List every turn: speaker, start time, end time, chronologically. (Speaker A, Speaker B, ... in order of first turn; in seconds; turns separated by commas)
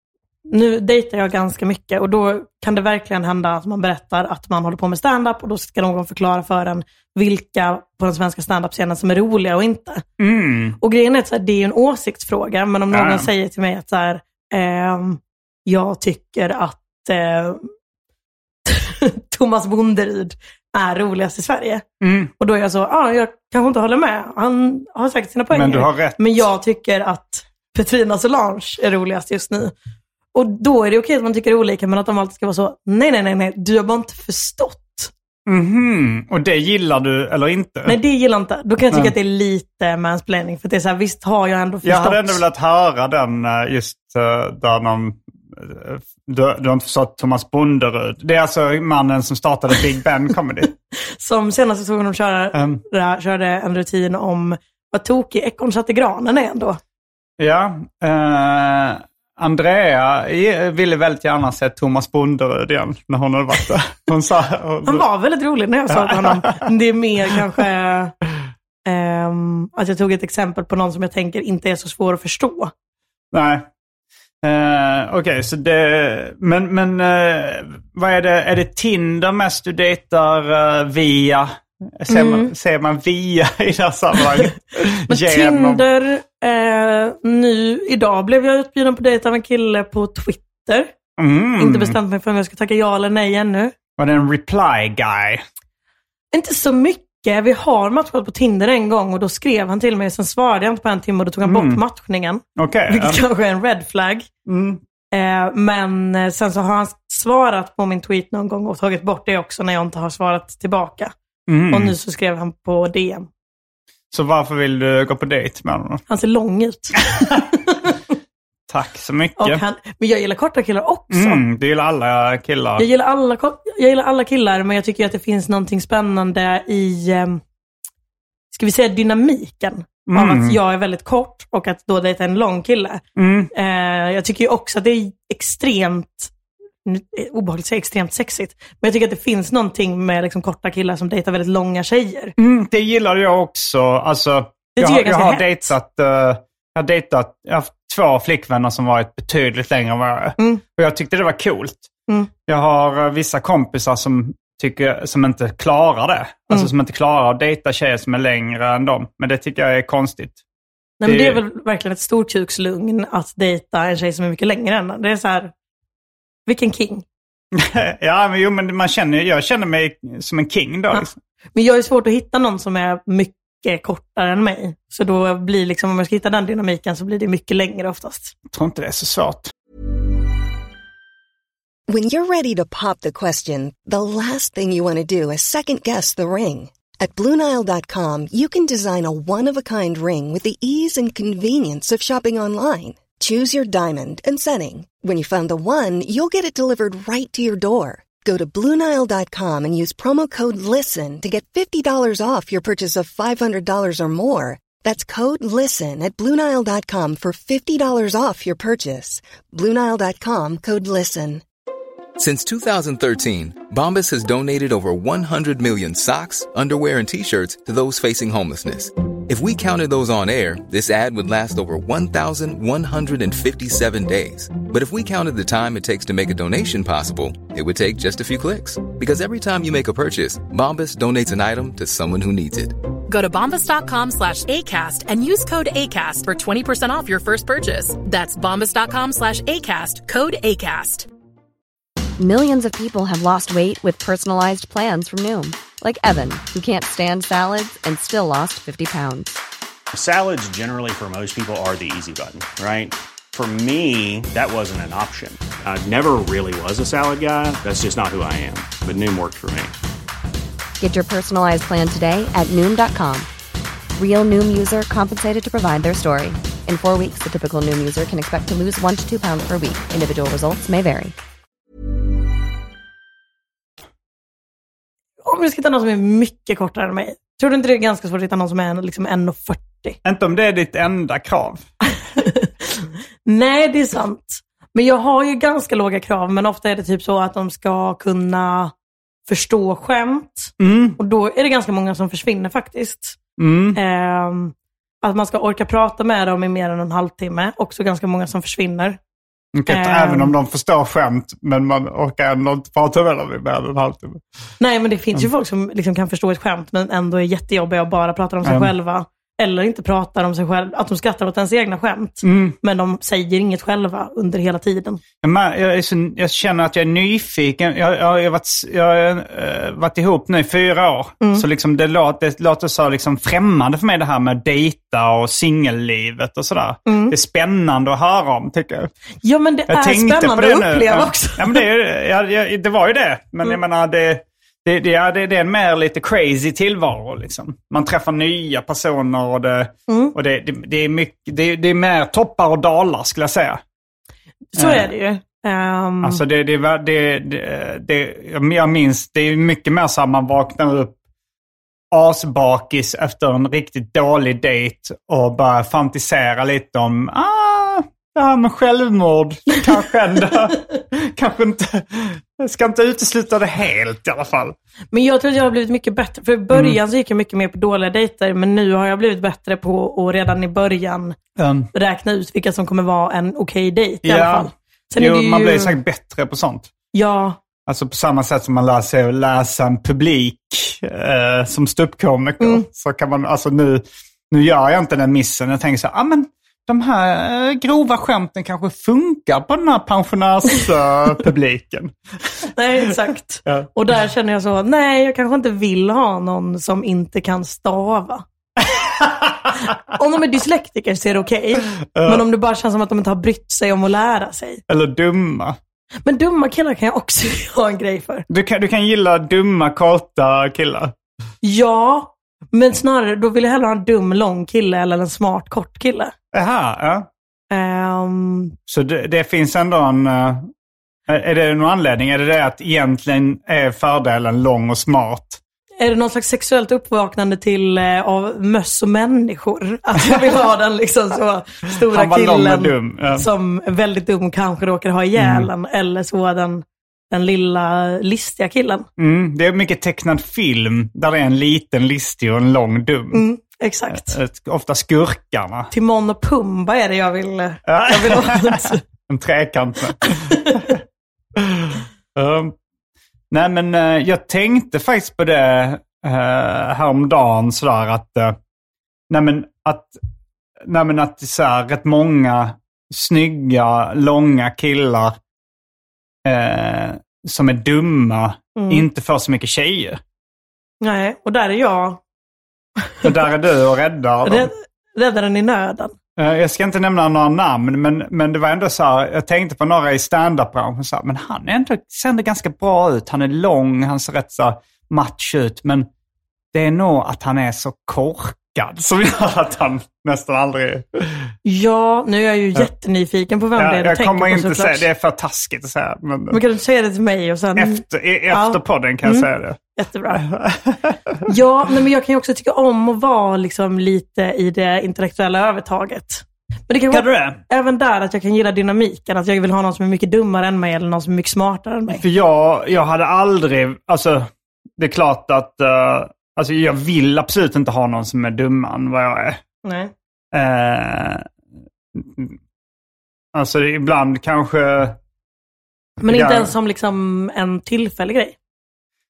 Speaker A: 0.5-10.0, Speaker B: 10.2-10.8, Speaker A: 10.8-17.7, Speaker B: 12.9-13.3, Speaker A: 18.6-21.9, Speaker B: 22.0-22.3, Speaker A: 22.4-29.7, Speaker B: 25.5-26.3, Speaker A: 30.3-35.1, Speaker B: 35.5-38.0, Speaker A: 37.9-42.4, Speaker B: 41.8-50.7, Speaker A: 51.2-56.8, Speaker B: 52.5-52.8, Speaker B: 57.4-65.0, Speaker A: 64.8-68.1, Speaker B: 65.9-66.5, Speaker A: 68.9-72.7, Speaker B: 73.3-73.7, Speaker B: 74.4-85.8, Speaker A: 82.1-82.5, Speaker A: 85.1-90.9, Speaker B: 91.2-92.0, Speaker A: 91.6-93.7, Speaker B: 94.0-95.4, Speaker A: 96.3-104.3, Speaker B: 101.4-101.8, Speaker B: 102.6-103.2, Speaker B: 104.5-104.8, Speaker A: 105.1-111.1, Speaker B: 111.5-111.9, Speaker A: 111.7-113.3, Speaker B: 114.1-116.0, Speaker A: 116.1-117.0, Speaker B: 117.1-117.4, Speaker A: 117.5-118.0, Speaker B: 118.7-119.6, Speaker A: 119.4-121.4, Speaker B: 121.1-122.9, Speaker A: 122.8-127.4, Speaker A: 128.5-133.0, Speaker B: 130.1-130.6, Speaker B: 133.2-133.5, Speaker A: 133.5-136.3, Speaker A: 136.8-142.3, Speaker B: 142.4-151.9, Speaker A: 144.8-145.7, Speaker B: 152.5-160.4, Speaker A: 161.0-165.5, Speaker B: 161.1-161.4, Speaker A: 166.5-167.1, Speaker B: 167.6-171.2, Speaker A: 170.9-178.3, Speaker B: 178.5-179.5, Speaker C: 181.9-211.4, Speaker D: 212.2-232.8, Speaker E: 233.1-241.1, Speaker F: 242.2-249.4, Speaker G: 249.9-259.7, Speaker F: 260.8-263.3, Speaker F: 263.9-271.1, Speaker A: 275.2-280.0, Speaker B: 280.1-281.6, Speaker A: 282.1-288.7, Speaker A: 289.3-293.2, Speaker B: 290.6-291.0, Speaker B: 293.4-293.8, Speaker A: 293.7-299.0, Speaker B: 299.6-304.2, Speaker A: 299.7-300.3, Speaker A: 304.6-315.0, Speaker B: 308.4-308.7, Speaker B: 312.2-312.6, Speaker B: 315.2-328.9, Speaker A: 326.9-327.1, Speaker A: 329.2-331.6, Speaker B: 329.7-343.6, Speaker A: 339.9-340.1, Speaker A: 344.5-346.2, Speaker B: 344.6-344.9, Speaker B: 346.0-351.0, Speaker B: 351.9-364.6, Speaker A: 364.9-371.1, Speaker B: 366.5-366.8, Speaker B: 371.4-371.7, Speaker A: 371.7-375.8, Speaker B: 374.0-376.7, Speaker A: 376.9-377.4, Speaker B: 377.7-391.9, Speaker A: 382.4-382.6, Speaker A: 392.6-398.2, Speaker B: 399.0-399.3, Speaker A: 399.9-404.6, Speaker B: 401.9-402.2, Speaker B: 404.7-405.6, Speaker A: 406.1-408.2, Speaker B: 408.3-410.9, Speaker A: 411.4-416.1, Speaker B: 416.3-417.1, Speaker A: 417.5-418.6, Speaker B: 418.7-420.5, Speaker B: 421.1-425.4, Speaker A: 425.8-438.9, Speaker B: 431.9-433.2, Speaker B: 435.2-435.5, Speaker B: 439.0-443.2, Speaker A: 443.1-444.1, Speaker B: 443.9-445.7, Speaker A: 445.7-448.8, Speaker B: 447.7-450.8, Speaker A: 450.3-450.6, Speaker B: 451.4-452.5, Speaker B: 453.3-458.4, Speaker B: 459.1-460.0, Speaker B: 460.6-465.1, Speaker B: 466.2-470.0, Speaker A: 468.6-468.8, Speaker A: 470.8-472.0, Speaker B: 473.0-474.5, Speaker A: 474.2-475.9, Speaker B: 476.2-485.9, Speaker B: 486.5-491.1, Speaker A: 491.4-494.9, Speaker B: 493.6-496.4, Speaker A: 496.3-500.2, Speaker B: 497.6-499.6, Speaker B: 500.2-501.2, Speaker A: 501.3-512.0, Speaker B: 506.9-507.4, Speaker B: 511.9-519.4, Speaker A: 519.6-519.9, Speaker B: 520.3-521.2, Speaker B: 522.0-522.4, Speaker B: 523.3-525.0, Speaker A: 526.0-528.4, Speaker B: 526.1-526.5